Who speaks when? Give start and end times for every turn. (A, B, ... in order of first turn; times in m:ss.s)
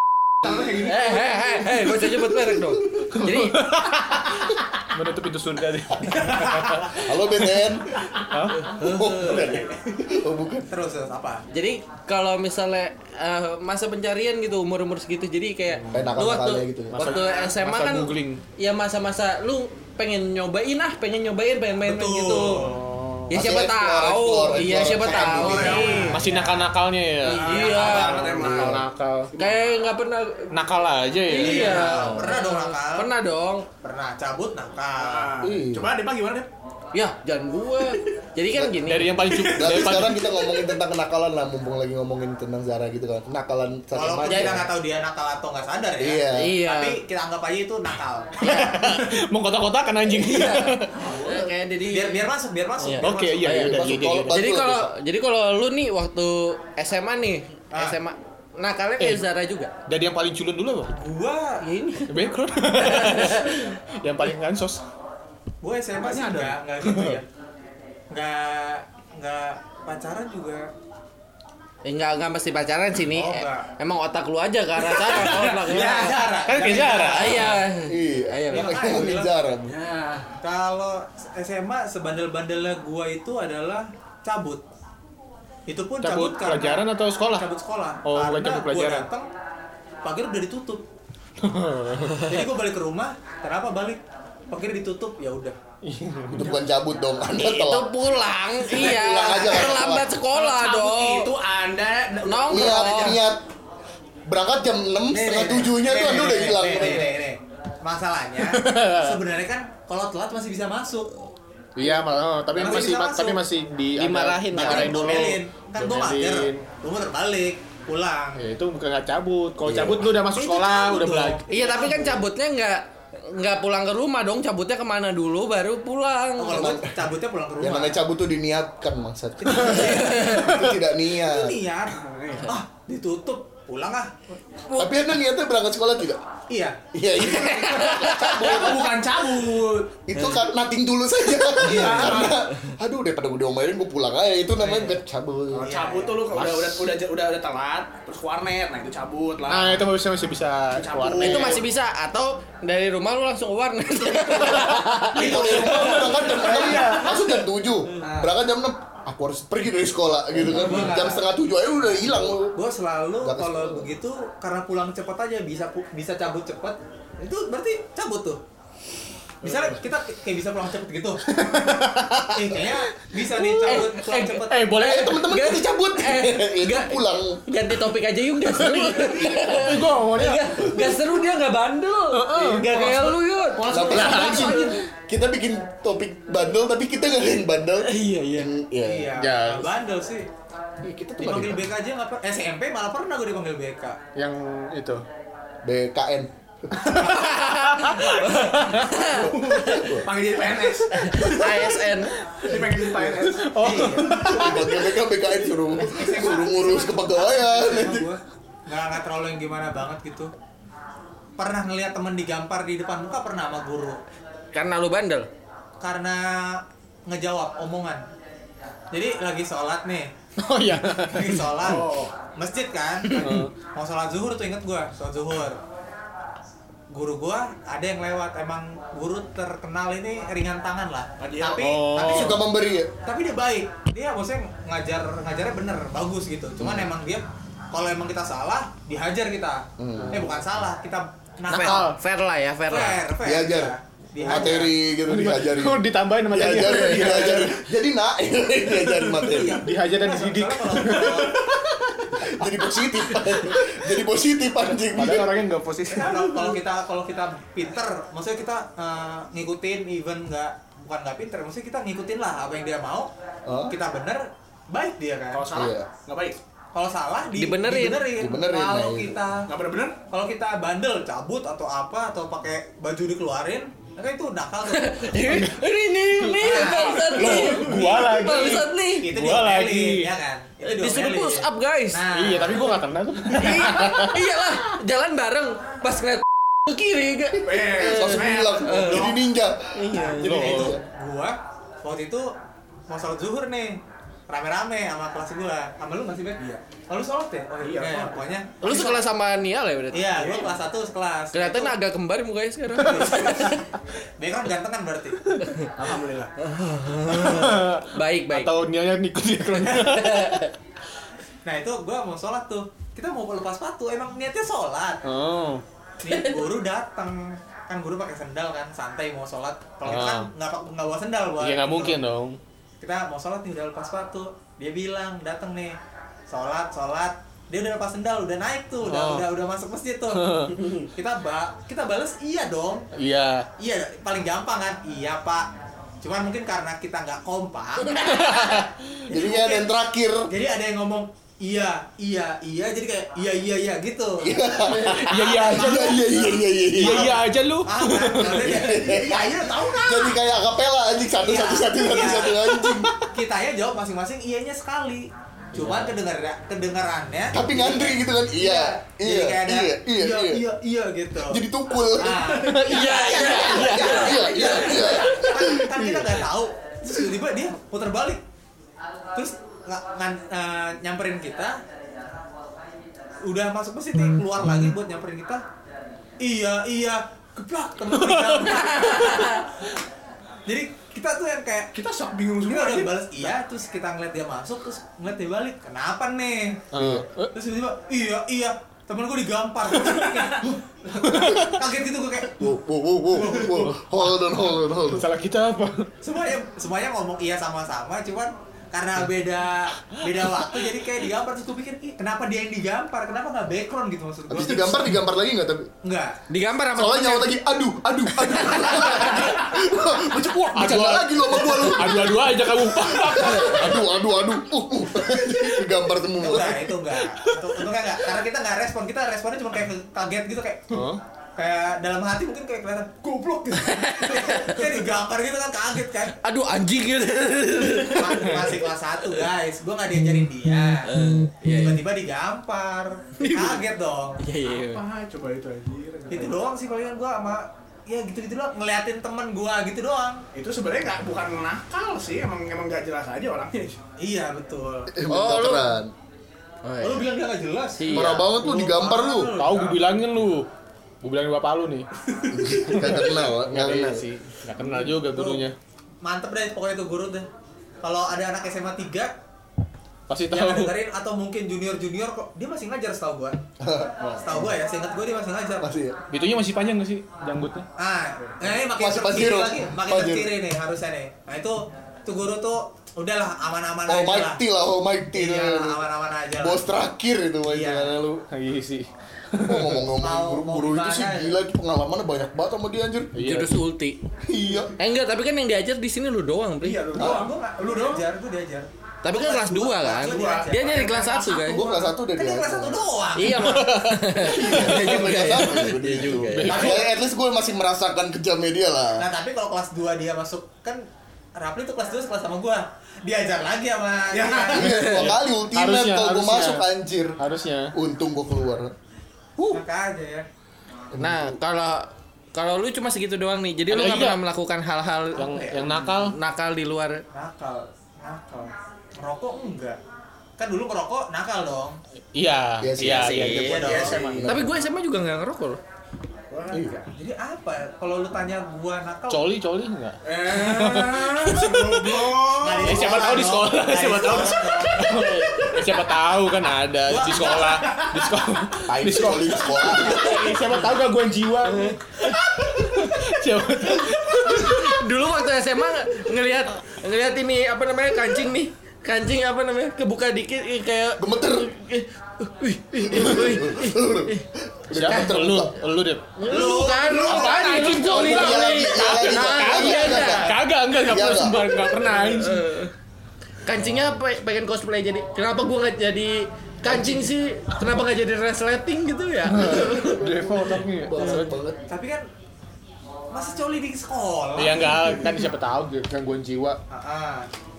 0:00.4-0:01.9 A
0:00.8-0:03.6 B
0:02.0-0:03.1 C
0:03.1-0:07.6 D
0:06.2-0:06.8 A
0:07.0-0:07.9 C
0:08.2-0:08.8 D
0:08.6-0:09.4 B
0:08.7-0:10.7 C
0:09.1-0:09.7 A
0:10.7-0:11.4 E
0:11.5-0:22.6 B
0:15.8-0:16.1 D
0:15.9-0:17.0 C
0:16.9-0:18.4 D
0:21.8-0:22.8 E
0:22.6-0:23.3 D
0:23.3-0:26.2 B
0:23.3-0:26.0 C
0:25.1-0:26.6 A
0:25.5-0:26.7 E
0:26.1-0:29.3 D
0:27.2-0:29.6 A
0:27.2-0:28.3 E
0:27.3-0:28.7 B
0:28.4-0:28.8 C
0:29.3-0:30.5 B
0:30.5-0:32.1 D
0:31.2-0:33.6 B
0:31.4-0:33.1 E
0:33.8-0:35.3 E
0:35.0-0:36.5 A
0:35.4-0:35.9 C
0:36.9-0:39.2 B
0:37.8-0:38.1 A
0:38.8-0:40.2 D
0:39.2-0:40.8 A
0:39.5-0:44.7 C
0:43.9-0:48.8 E
0:44.3-0:44.5 B
0:46.0-0:46.6 C
0:46.3-0:47.0 B
0:48.4-0:50.9 D
0:50.3-0:51.4 A
0:51.0-0:52.2 B
0:51.0-0:51.3 E
0:51.9-0:53.6 E
0:52.8-0:59.7 B
0:53.0-0:54.4 D
0:53.5-0:54.9 C
0:57.7-0:58.0 E
0:59.0-0:59.2 D
0:59.9-1:00.9 D
1:00.9-1:01.6 E
1:01.6-1:02.1 B
1:02.1-1:04.8 D
1:02.7-1:03.6 B
1:05.6-1:07.2 E
1:06.0-1:06.6 A
1:06.8-1:07.2 D
1:08.1-1:10.7 E
1:11.8-1:16.2 B
1:13.1-1:13.7 E
1:14.8-1:16.1 A
1:15.3-1:17.6 E
1:16.4-1:17.6 D
1:17.1-1:18.9 B
1:17.9-1:19.8 C
1:18.5-1:19.3 E
1:19.6-1:20.3 A
1:20.4-1:24.6 E
1:25.7-1:26.8 E
1:26.0-1:27.5 D
1:27.4-1:29.3 E
1:28.0-1:29.1 D
1:30.0-1:30.8 E
1:31.4-1:32.4 D
1:32.1-1:35.6 E
1:35.8-1:36.5 D
1:36.3-1:37.9 C
1:37.3-1:41.3 B
1:38.7-1:40.1 C
1:38.7-1:39.0 A
1:40.3-1:43.2 A
1:42.2-1:43.2 B
1:42.5-1:43.4 C
1:44.2-1:47.1 C
1:45.1-1:51.2 E
1:48.4-1:49.2 D
1:51.8-1:56.6 D
1:52.5-1:53.4 E
1:54.0-1:55.3 B
1:54.5-1:58.4 E
1:58.4-2:01.4 D
1:59.6-2:00.1 C
2:00.3-2:02.2 E
2:01.5-2:06.7 B
2:06.4-2:08.0 E
2:06.5-2:07.0 C
2:07.6-2:11.6 C
2:09.4-2:14.4 E
2:09.7-2:10.5 B
2:11.9-2:12.5 A
2:14.6-2:15.0 B
2:14.8-2:16.2 C
2:16.5-2:16.8 E
2:16.9-2:19.0 C
2:17.3-2:18.7 B
2:18.1-2:19.9 A
2:20.1-2:25.6 C
2:21.6-2:22.4 A
2:21.6-2:22.3 E
2:24.6-2:25.0 E
2:25.5-2:29.9 A
2:25.6-2:26.2 E
2:26.3-2:26.9 D
2:29.5-2:31.6 D
2:30.7-2:31.6 A
2:31.2-2:37.0 B
2:34.6-2:35.2 D
2:35.1-2:42.6 C
2:35.1-2:37.3 A
2:35.4-2:36.0 E
2:36.6-2:36.9 D
2:38.0-2:38.3 E
2:40.4-2:41.3 E
2:42.0-2:48.4 E
2:43.2-2:43.9 C
2:49.4-2:54.7 E
2:51.2-2:52.7 D
2:53.3-2:55.2 D
2:53.6-3:04.7 B
2:54.8-2:57.4 C
2:58.6-3:01.0 D
2:58.7-2:59.8 A
3:02.1-3:02.9 D
3:02.6-3:04.7 A
3:03.7-3:09.1 C
3:03.9-3:04.7 D
3:07.8-3:08.5 B
3:08.8-3:10.3 E
3:09.2-3:09.7 D
3:10.8-3:11.7 C
3:11.2-3:14.0 E
3:14.2-3:15.0 D
3:15.6-3:17.1 C
3:16.9-3:18.1 D
3:16.9-3:19.9 B
3:17.9-3:21.9 A
3:19.3-3:20.1 C
3:20.9-3:22.2 B
3:22.4-3:24.3 A
3:22.8-3:23.1 C
3:23.2-3:24.8 D
3:23.6-3:24.4 E
3:24.2-3:28.1 C
3:25.7-3:30.3 E
3:31.4-3:34.0 E
3:34.5-3:35.3 B
3:35.8-3:38.0 E
3:38.9-3:40.1 E
3:40.4-3:41.6 D
3:40.8-3:45.6 E
3:41.6-3:42.1 A
3:43.1-3:43.5 D
3:46.9-3:52.4 E
3:51.2-3:51.7 A
3:51.6-3:52.4 D
3:52.0-3:52.9 C
3:53.0-4:01.9 E
3:56.6-3:56.9 C
3:59.8-4:00.4 C
4:01.5-4:03.0 B
4:01.6-4:02.0 D
4:02.7-4:04.8 E
4:03.2-4:09.6 C
4:05.0-4:07.6 D
4:09.2-4:11.6 E
4:09.4-4:11.6 D
4:12.1-4:15.4 C
4:14.9-4:16.2 D
4:15.9-4:16.6 A
4:15.9-4:23.1 E
4:23.4-4:23.7 C
4:23.7-4:25.5 E
4:25.3-4:26.4 A
4:25.5-4:25.9 C
4:26.7-4:29.5 E
4:27.4-4:28.1 B
4:28.1-4:29.2 C
4:29.5-4:30.0 A
4:30.1-4:35.4 E
4:34.7-4:39.1 B
4:35.2-4:35.6 D
4:36.4-4:42.8 E
4:36.6-4:38.1 A
4:37.1-4:40.1 D
4:40.6-4:42.0 B
4:42.1-4:44.2 D
4:43.3-4:43.8 A
4:43.4-4:49.1 B
4:47.4-4:48.9 A
4:47.7-4:50.8 C
4:48.8-4:49.2 E
4:49.7-4:50.7 B
4:50.0-4:50.8 D
4:50.2-4:52.3 E
4:52.9-4:59.0 E
4:57.6-4:58.2 A
4:58.6-5:00.5 B
4:59.9-5:01.7 E
5:01.3-5:03.6 B
5:02.8-5:03.6 E
5:04.2-5:05.4 E
5:05.4-5:05.7 B
5:05.7-5:06.3 A
5:06.4-5:08.5 B
5:07.1-5:10.5 D
5:09.6-5:10.5 B
5:11.4-5:15.0 E
5:15.0-5:15.6 D
5:16.0-5:22.0 E
5:16.1-5:16.4 B
5:19.8-5:20.3 D
5:21.4-5:22.4 D
5:22.8-5:32.9 E
5:28.8-5:29.2 D
5:30.1-5:30.7 D
5:32.9-5:33.5 D
5:33.6-5:35.5 E
5:36.0-5:39.7 E
5:38.0-5:38.7 D
5:39.1-5:40.3 C
5:40.3-5:49.8 E
5:44.2-5:47.1 C
5:44.9-5:46.1 D
5:46.7-5:48.5 D
5:48.4-5:52.9 C
5:48.6-5:50.2 A
5:51.2-5:52.5 E
5:52.6-5:53.0 D
5:53.1-6:01.4 E
5:55.5-5:55.9 C
5:57.3-6:00.4 C
6:01.2-6:02.4 C
6:02.0-6:08.2 E
6:02.4-6:04.0 D
6:02.7-6:05.3 B
6:03.2-6:06.2 C
6:09.1-6:11.6 E
6:13.2-6:15.4 E
6:16.2-6:19.4 E
6:17.9-6:18.7 D
6:18.4-6:19.5 B
6:20.4-6:21.7 E
6:21.7-6:22.9 A
6:22.4-6:26.7 E
6:26.7-6:27.3 D
6:26.7-6:27.0 C
6:27.3-6:32.4 E
6:30.0-6:30.4 A
6:31.0-6:31.6 D
6:32.4-6:35.1 C
6:33.1-6:33.8 E
6:33.5-6:34.1 D
6:34.8-6:35.9 D
6:36.0-6:44.9 E
6:44.3-6:45.7 C
6:45.8-6:46.2 E
6:46.3-6:47.4 B
6:46.7-6:56.7 C
6:48.2-6:49.4 B
6:50.5-6:53.9 D
6:55.2-6:55.5 A
6:56.2-7:00.8 E
7:00.7-7:01.0 D
7:01.4-7:02.9 E
7:03.0-7:04.3 A
7:03.5-7:04.6 B
7:04.1-7:06.2 E
7:06.2-7:08.5 B
7:08.0-7:10.9 E
7:10.8-7:11.8 B
7:11.4-7:14.2 E
7:13.2-7:13.6 B
7:14.2-7:14.8 B
7:14.4-7:16.4 A
7:16.1-7:20.2 E
7:20.3-7:23.8 A
7:24.0-7:24.9 E
7:24.9-7:25.9 C
7:25.1-7:25.7 B
7:26.6-7:27.0 B
7:26.8-7:29.8 E
7:27.8-7:28.3 B
7:27.9-7:29.3 C
7:29.3-7:30.5 D
7:31.0-7:31.9 D
7:32.2-7:33.2 A
7:32.3-7:34.0 C
7:32.7-7:35.5 D
7:34.8-7:35.4 E
7:36.0-7:37.3 E
7:37.8-7:39.1 E
7:40.1-7:40.7 D
7:40.3-7:43.4 E
7:43.6-7:44.5 C
7:44.2-7:45.7 E
7:45.6-7:46.0 C
7:46.1-7:47.6 D
7:47.8-7:54.4 E
7:48.6-7:50.3 C
7:53.9-7:55.8 C
7:55.1-7:56.6 E
7:56.4-7:58.2 C
7:57.5-7:57.9 E
7:58.3-7:59.8 D
7:59.4-8:03.2 C
8:00.0-8:01.4 E
8:03.1-8:03.6 D
8:03.2-8:04.0 B
8:04.2-8:04.7 C
8:04.8-8:06.9 B
8:06.6-8:08.0 A
8:06.9-8:07.2 C
8:06.9-8:13.6 E
8:09.0-8:11.6 B
8:10.0-8:10.5 A
8:11.4-8:12.8 C
8:13.2-8:16.7 B
8:13.2-8:14.8 D
8:14.2-8:19.0 C
8:16.3-8:16.8 D
8:16.5-8:16.9 E
8:19.0-8:20.8 E
8:21.4-8:24.8 E
8:24.1-8:24.8 A
8:24.5-8:27.2 C
8:24.6-8:25.1 B
8:24.9-8:26.7 D
8:27.2-8:27.7 D
8:27.7-8:28.7 C
8:29.5-8:30.3 E
8:30.9-8:31.4 C
8:31.0-8:35.4 B
8:33.7-8:34.2 D
8:35.2-8:36.2 D
8:35.2-8:36.0 A
8:36.0-8:37.0 B
8:37.1-8:39.8 E
8:40.4-8:41.8 E
8:42.1-8:44.3 D
8:42.6-8:44.6 C
8:42.8-8:45.6 B
8:43.2-8:44.0 E
8:46.3-8:46.9 A
8:46.5-8:46.8 C
8:46.9-8:49.3 E
8:49.1-9:04.8 D
8:50.0-8:53.1 A
8:52.3-8:55.1 E
8:56.8-8:57.9 E
8:57.4-8:58.0 A
8:58.7-9:00.3 C
9:00.0-9:00.3 B
9:01.4-9:01.8 B
9:04.1-9:14.2 B
9:11.0-9:11.5 C
9:12.9-9:15.6 C
9:14.7-9:16.2 D
9:16.2-9:20.3 B
9:16.2-9:17.7 E
9:16.8-9:17.8 A
9:17.1-9:22.5 D
9:17.7-9:20.3 C
9:19.8-9:20.4 E
9:20.8-9:21.5 C
9:21.6-9:22.7 B
9:23.4-9:30.0 B
9:23.6-9:23.9 D
9:26.6-9:27.1 C
9:29.3-9:31.4 D
9:29.4-9:31.6 C
9:31.0-9:31.3 B
9:31.7-9:32.1 E
9:33.1-9:34.7 E
9:34.4-9:36.6 D
9:36.7-9:37.3 E